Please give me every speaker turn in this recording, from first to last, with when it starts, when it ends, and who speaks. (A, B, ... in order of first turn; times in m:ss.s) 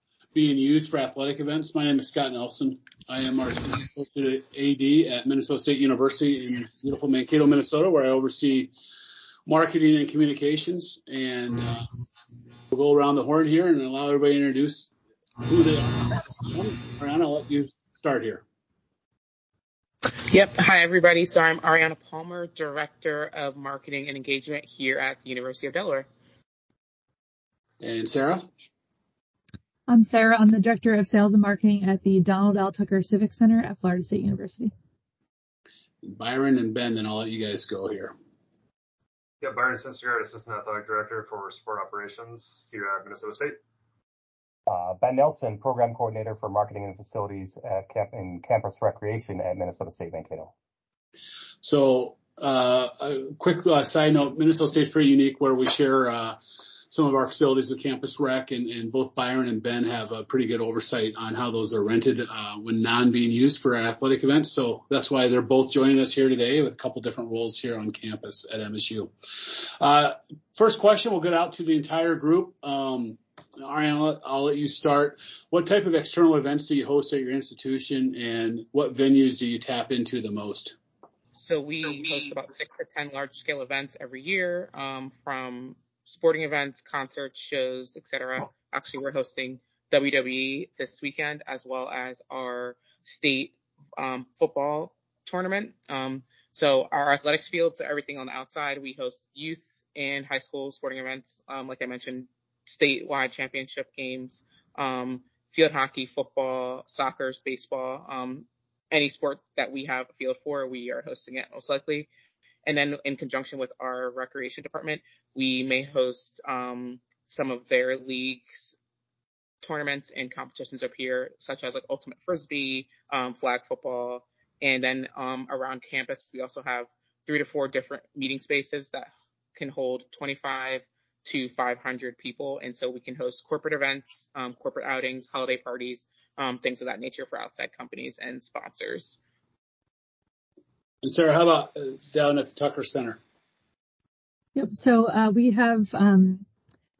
0:00.3-0:08.7 A
0:09.4-0:11.9 A
0:12.7-0:14.9 A
0:15.4-0:18.4 A
0:20.1-0:26.1 B
0:27.8-0:28.5 A
0:29.9-0:34.7 C
0:36.0-0:38.1 A
0:39.4-0:43.6 D
0:44.7-0:50.5 E
0:51.6-0:56.4 A
0:56.9-1:20.8 A
1:21.3-1:52.1 B
1:52.6-1:58.7 B
1:59.6-2:19.2 B
2:21.0-2:23.2 A
2:24.5-2:26.4 C